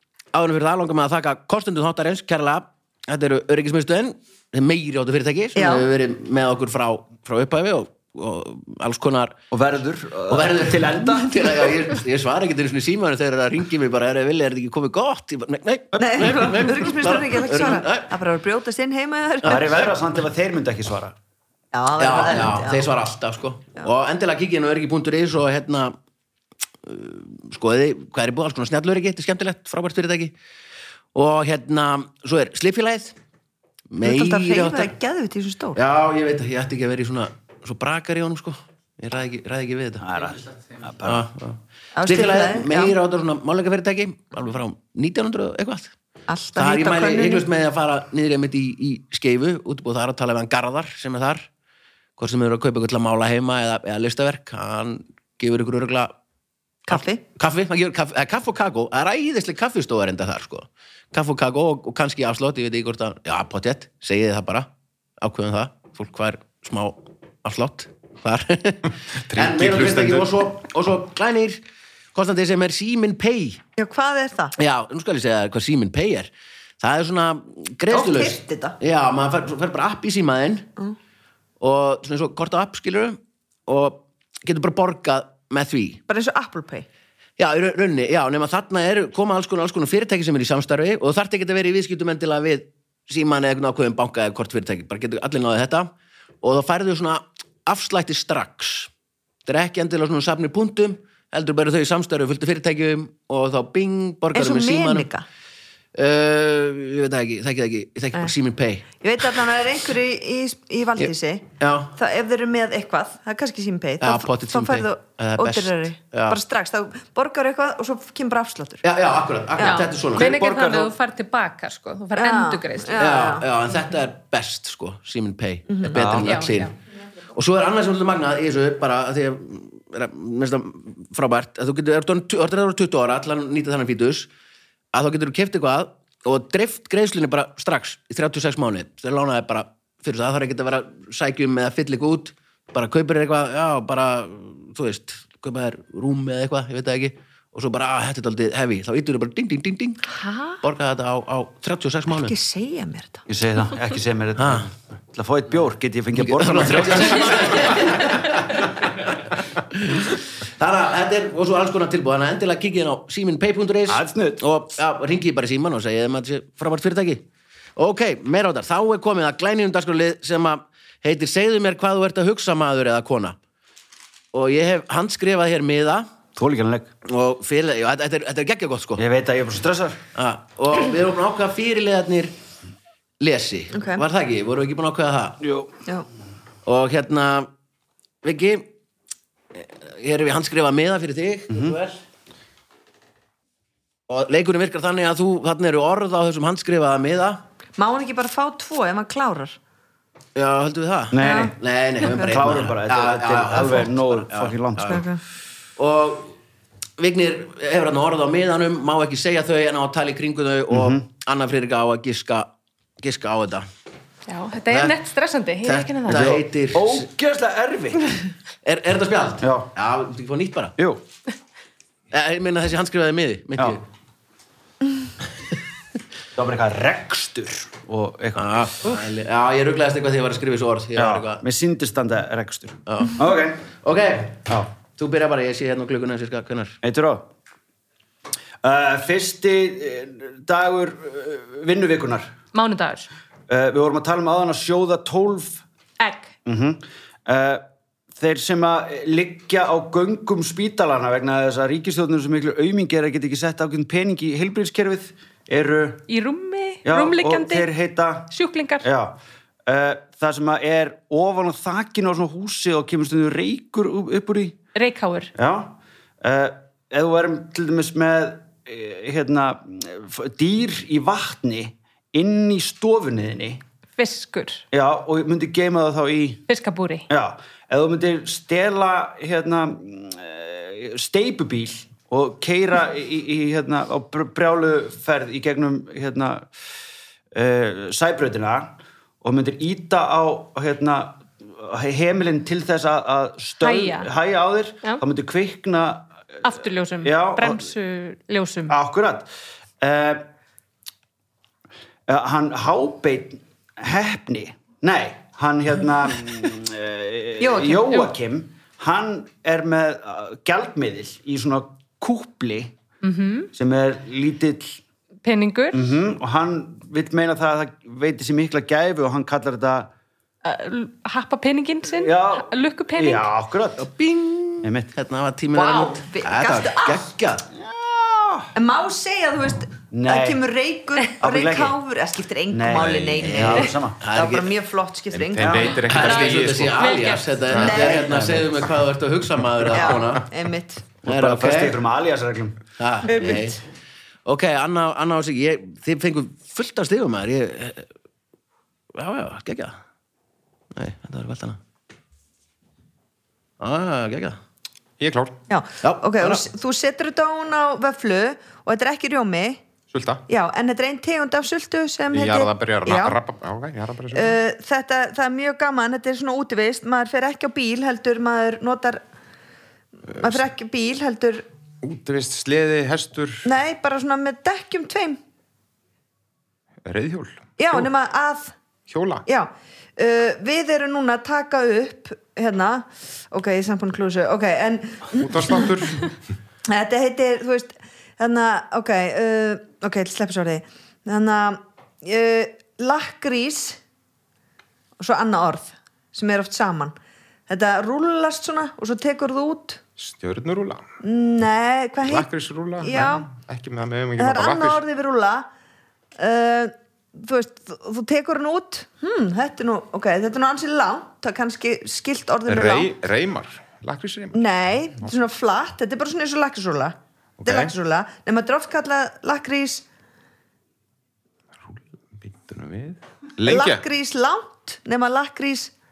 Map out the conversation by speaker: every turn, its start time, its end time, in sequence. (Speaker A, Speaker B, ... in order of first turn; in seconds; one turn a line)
Speaker A: 0.3-9.4
Speaker B: 5.5-5.9
Speaker C: 9.5-11.8
Speaker A: 10.3-18.1
Speaker C: 16.0-16.3
Speaker B: 16.0-19.9
Speaker C: 19.4-21.1
Speaker B: 21.7-22.9
Speaker A: 22.0-25.9
Speaker A: 26.8-30.4
Speaker A: 31.1-33.2
Speaker A: 33.9-34.9
Speaker B: 34.0-35.8
Speaker A: 35.7-40.2
Speaker C: 40.0-41.2
Speaker A: 41.0-45.9
Speaker B: 42.0-43.0
Speaker B: 46.3-47.5
Speaker A: 46.5-51.5
Speaker A: 52.2-56.1
Speaker B: 56.9-57.2
Speaker A: 56.9-71.6
Speaker D: 69.2-70.4
Speaker A: 72.1-73.6
Speaker B: 73.8-74.5
Speaker A: 74.5-80.7
Speaker B: 77.9-78.8
Speaker A: 81.6-86.0
Speaker B: 86.1-86.8
Speaker A: 87.4-98.9
Speaker A: 99.4-105.1
Speaker B: 104.3-105.2
Speaker A: 105.9-108.9
Speaker B: 109.0-118.8
Speaker A: 111.0-112.0
Speaker A: 114.0-116.4
Speaker A: 118.8-120.4
Speaker B: 119.5-119.9
Speaker E: 119.6-123.1
Speaker C: 120.1-120.9
Speaker B: 122.1-123.8
Speaker A: 123.0-126.7
Speaker B: 125.7-126.2
Speaker C: 125.9-126.3
Speaker E: 126.2-126.7
Speaker A: 127.3-134.3
Speaker A: 134.9-150.1
Speaker A: 150.6-152.3
Speaker B: 152.1-153.2
Speaker C: 153.3-157.8
Speaker A: 154.4-154.7
Speaker A: 156.1-167.2
Speaker C: 163.9-164.4
Speaker A: 167.8-173.4
Speaker A: 174.3-176.1
Speaker C: 176.3-176.9
Speaker A: 177.0-179.0
Speaker C: 179.0-180.0
Speaker A: 180.1-182.3
Speaker A: 183.2-185.4
Speaker B: 183.7-184.0
Speaker C: 185.4-185.7
Speaker A: 186.6-187.5
Speaker A: 188.2-188.7
Speaker A: 189.5-192.0
Speaker C: 191.5-191.7
Speaker A: 194.1-197.4
Speaker B: 197.8-199.6
Speaker A: 200.3-205.0
Speaker C: 201.1-205.0
Speaker B: 201.2-202.6
Speaker B: 204.8-205.2
Speaker A: 205.8-206.3
Speaker A: 207.0-213.7
Speaker C: 210.7-211.0
Speaker E: 214.3-216.3
Speaker A: 214.7-215.0
Speaker A: 215.6-217.1
Speaker C: 216.1-218.1
Speaker A: 218.6-220.8
Speaker C: 219.4-219.7
Speaker C: 220.8-221.0
Speaker A: 222.1-223.8
Speaker C: 226.3-228.6
Speaker A: 228.3-231.4
Speaker C: 230.9-233.6
Speaker A: 232.9-236.8
Speaker C: 236.8-237.3
Speaker C: 238.6-242.3
Speaker E: 242.5-243.1
Speaker C: 243.5-245.6
Speaker E: 246.0-246.3
Speaker C: 246.4-256.1
Speaker E: 256.1-257.7
Speaker C: 256.8-264.6
Speaker E: 258.3-258.9
Speaker E: 264.7-265.3
Speaker C: 265.4-273.6
Speaker E: 274.0-274.6
Speaker C: 274.7-276.4
Speaker E: 276.5-277.1
Speaker C: 277.1-286.5
Speaker C: 287.3-296.5
Speaker E: 293.6-294.1
Speaker E: 296.4-298.8
Speaker C: 297.0-297.7
Speaker C: 298.7-299.3
Speaker C: 299.8-300.3
Speaker C: 302.1-312.7
Speaker B: 307.4-307.9
Speaker E: 307.8-308.1
Speaker E: 313.0-313.5
Speaker C: 313.5-314.8
Speaker E: 315.2-315.9
Speaker C: 315.7-319.9
Speaker E: 320.4-323.3
Speaker C: 321.9-323.8
Speaker A: 323.8-327.5
Speaker C: 324.6-324.9
Speaker B: 325.5-327.1
Speaker C: 327.5-328.5
Speaker B: 328.5-335.8
Speaker C: 329.9-330.4
Speaker C: 331.2-331.8
Speaker C: 332.5-334.0
Speaker A: 333.1-334.5
Speaker D: 335.1-336.9
Speaker A: 335.8-340.3
Speaker E: 336.0-337.5
Speaker B: 337.5-338.3
Speaker D: 337.5-337.8
Speaker C: 337.9-338.6
Speaker B: 339.7-340.9
Speaker C: 341.0-342.6
Speaker A: 341.0-341.8
Speaker A: 342.8-343.6
Speaker B: 343.1-343.6
Speaker A: 344.2-347.9
Speaker A: 348.9-349.8
Speaker A: 350.7-351.6
Speaker A: 353.6-354.4
Speaker D: 355.0-355.4
Speaker B: 355.5-359.6
Speaker A: 355.8-356.4
Speaker D: 359.9-360.2
Speaker B: 360.3-363.2
Speaker D: 362.1-364.4
Speaker B: 364.1-369.0
Speaker B: 370.2-371.4
Speaker D: 371.8-373.5
Speaker B: 373.4-375.2
Speaker D: 376.8-377.9
Speaker B: 377.6-378.6
Speaker D: 378.9-379.2
Speaker B: 379.3-385.7
Speaker D: 385.1-386.1
Speaker B: 386.7-393.8
Speaker B: 395.0-396.9
Speaker B: 397.5-399.8
Speaker D: 400.0-400.8
Speaker B: 401.0-402.3
Speaker D: 402.0-404.8
Speaker B: 402.8-403.3
Speaker B: 404.2-405.5
Speaker B: 406.1-412.9
Speaker D: 412.5-414.4
Speaker B: 414.3-419.9
Speaker D: 417.4-417.7
Speaker D: 421.6-423.8
Speaker B: 423.4-425.7